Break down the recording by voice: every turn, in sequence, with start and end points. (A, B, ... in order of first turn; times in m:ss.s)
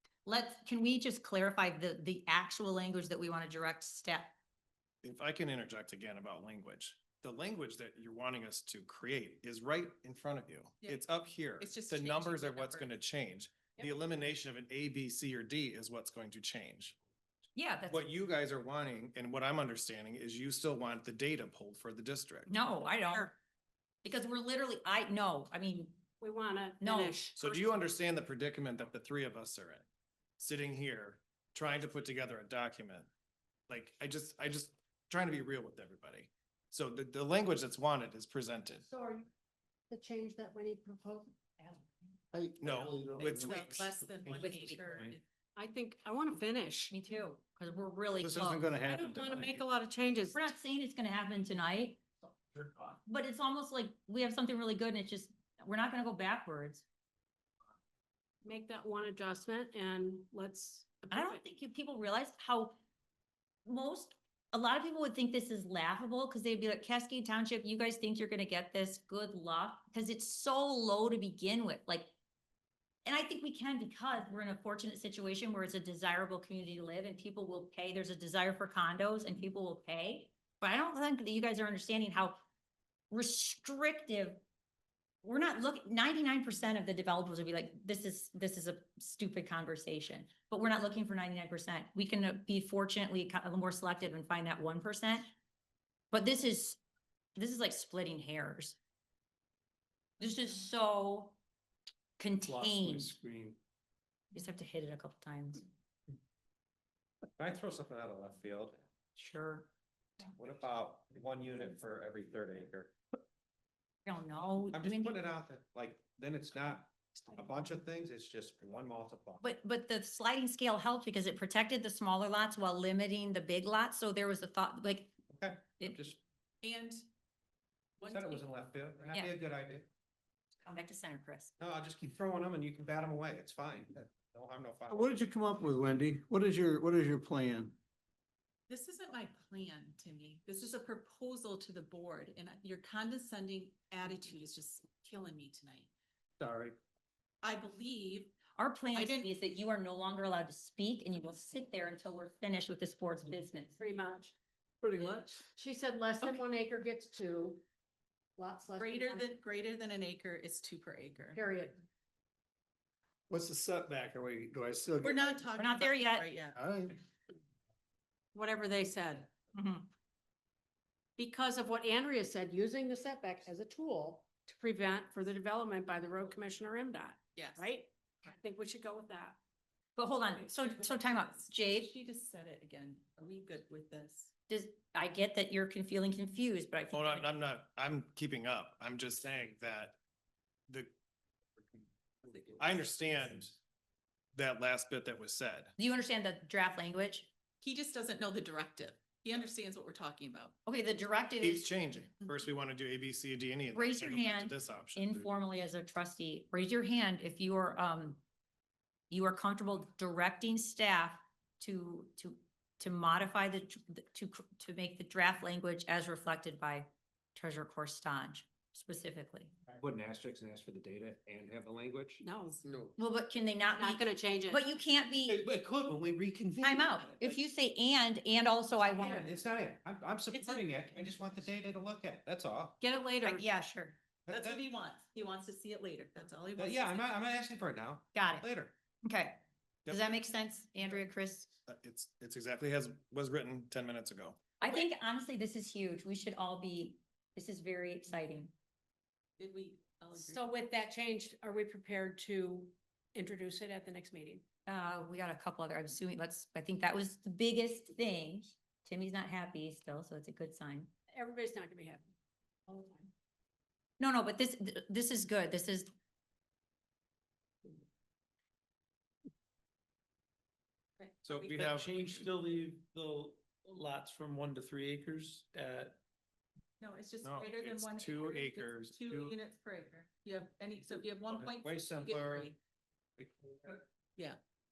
0:00.3-0:04.4 A
0:05.0-0:17.0 B
0:11.6-0:12.9 C
0:17.6-0:18.1 A
0:17.9-0:22.5 B
0:22.5-0:23.4 A
0:24.0-0:26.0 A
0:26.2-0:27.8 D
0:26.8-0:27.2 A
0:27.4-0:29.8 B
0:30.4-0:33.1 B
0:33.7-0:38.8 B
0:38.9-0:39.3 D
0:39.9-0:41.8 D
0:42.3-0:44.3 E
0:42.6-0:43.8 B
0:43.1-0:45.2 C
0:44.3-0:44.8 A
0:45.6-0:46.9 D
0:46.9-0:48.7 A
0:48.5-0:48.9 B
0:48.6-0:49.4 E
0:48.9-0:50.4 D
0:50.3-0:52.0 A
0:53.0-0:56.8 A
0:58.4-1:01.4 D
1:01.1-1:02.8 A
1:03.6-1:12.1 A
1:13.0-1:22.4 A
1:23.1-1:24.4 A
1:25.2-1:35.3 A
1:36.1-1:36.8 A
1:37.4-1:38.8 A
1:40.2-1:41.4 A
1:42.2-1:43.1 A
1:42.5-1:43.6 F
1:44.3-1:45.6 A
1:47.4-1:48.8 G
1:49.2-1:49.7 A
1:50.3-1:53.0 G
1:54.1-1:55.2 A
1:54.7-1:59.4 G
1:59.4-2:05.1 A
2:05.3-2:06.2 G
2:06.6-2:07.0 C
2:08.0-2:08.5 C
2:08.0-2:09.9 G
2:10.7-2:11.5 A
2:11.6-2:15.2 G
2:14.9-2:17.8 E
2:18.7-2:25.9 C
2:26.4-2:26.8 E
2:27.4-2:28.3 C
2:28.6-2:33.8 A
2:28.9-2:29.3 C
2:33.8-2:34.3 D
2:34.8-2:35.5 E
2:35.5-2:37.6 D
2:38.4-2:39.2 D
2:38.8-2:41.4 C
2:41.3-2:41.8 D
2:43.3-2:45.3 E
2:45.0-2:46.6 C
2:45.6-2:46.3 A
2:46.6-2:47.0 E
2:48.3-2:49.3 D
2:49.6-2:49.9 A
2:51.2-2:59.4 D
2:57.4-2:57.7 C
3:00.0-3:01.9 A
3:00.4-3:04.3 C
3:04.5-3:07.3 A
3:06.9-3:10.0 B
3:12.6-3:13.5 B
3:14.4-3:15.7 B
3:15.8-3:17.3 A
3:17.6-3:20.5 C
3:20.7-3:21.7 A
3:21.4-3:25.3 B
3:23.7-3:28.2 A
3:29.1-3:39.5 A
3:39.7-3:42.9 G
3:42.2-3:42.6 D
3:43.0-3:45.4 A
3:43.8-3:44.6 D
3:45.3-3:47.3 G
3:46.6-3:49.3 A
3:48.9-3:52.8 G
3:49.0-3:49.2 D
3:52.8-3:53.5 D
3:53.2-3:54.0 A
3:54.3-3:54.6 G
3:54.3-3:57.2 C
3:56.6-3:58.7 G
3:58.1-3:58.5 A
3:59.0-4:01.5 A
4:01.7-4:04.4 B
4:04.6-4:08.5 A
4:09.4-4:10.5 C
4:10.2-4:14.4 D
4:14.7-4:20.9 A
4:21.1-4:22.1 D
4:22.7-4:23.1 D
4:24.0-4:25.9 A
4:31.2-4:32.0 B
4:31.3-4:31.6 C
4:31.5-4:36.0 F
4:36.8-4:42.6 C
4:37.2-4:39.4 B
4:41.3-4:42.5 G
4:43.2-4:43.8 G